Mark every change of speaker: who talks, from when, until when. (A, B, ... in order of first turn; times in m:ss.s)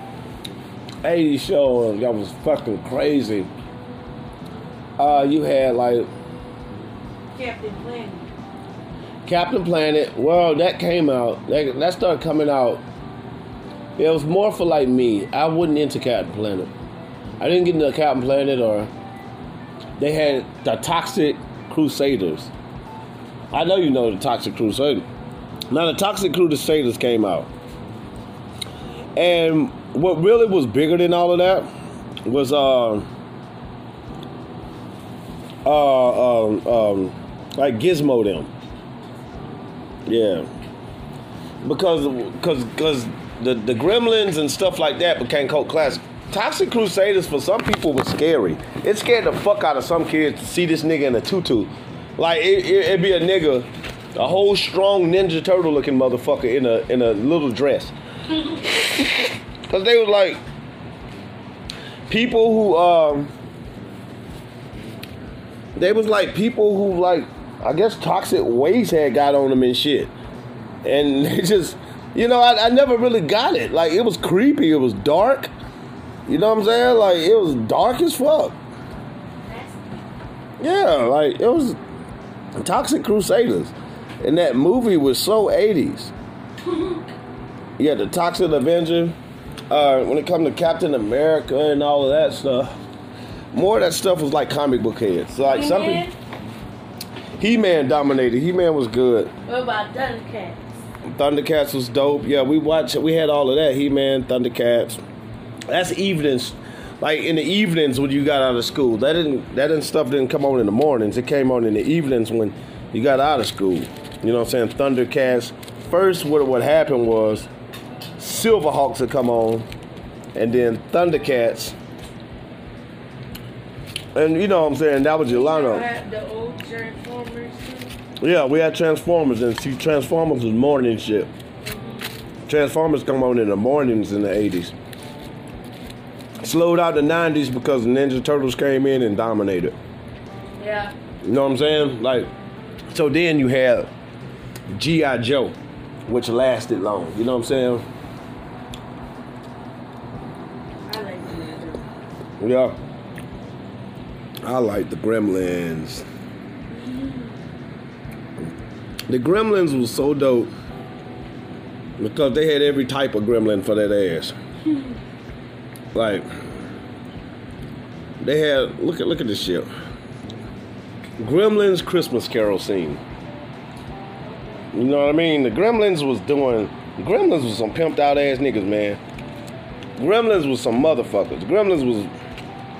0:01.0-0:03.5 A
0:05.0-0:06.1 A
0:07.3-0:08.3 B
0:09.2-0:12.8 A
0:14.0-0:16.7 A
0:17.4-0:18.9 A
0:20.0-0:22.5 A
0:23.5-0:25.0 A
0:25.7-0:27.5 A
0:29.2-0:31.7 A
0:32.2-0:33.1 A
0:35.6-0:38.5 A
0:40.0-0:40.5 A
0:41.6-0:57.9 A
0:58.5-1:00.4 A
1:02.1-1:03.3 A
1:05.8-1:10.1 A
1:10.8-1:15.5 A
1:16.2-1:18.6 A
1:19.4-1:19.9 B
1:20.6-1:21.8 A
1:22.6-1:26.1 A
1:26.7-1:27.0 B
1:27.8-1:29.2 A
1:29.7-1:32.8 A
1:33.5-1:36.1 A
1:35.4-1:36.1 B
1:37.4-1:39.3 A
1:39.4-1:40.8 B
1:41.0-1:45.0 A
1:45.7-1:57.5 A
1:58.2-1:59.6 A
2:00.3-2:01.7 A
2:04.1-2:05.9 A
2:05.2-2:07.9 B
2:08.2-2:11.3 A
2:11.6-2:12.1 B
2:12.5-2:14.7 A
2:16.4-2:19.8 A
2:20.6-2:20.9 B
2:21.2-2:22.3 A
2:22.9-2:23.9 A
2:24.7-2:25.6 A
2:26.1-2:27.8 A
2:30.8-2:31.9 B
2:32.4-2:32.8 A
2:34.4-2:36.0 A
2:36.7-2:37.3 B
2:39.1-2:40.5 A
2:42.0-2:44.3 A
2:45.9-2:46.3 A
2:48.2-2:49.7 A
2:51.2-2:53.0 A
2:54.2-2:54.7 B
2:54.7-2:59.0 A
3:00.0-3:02.1 A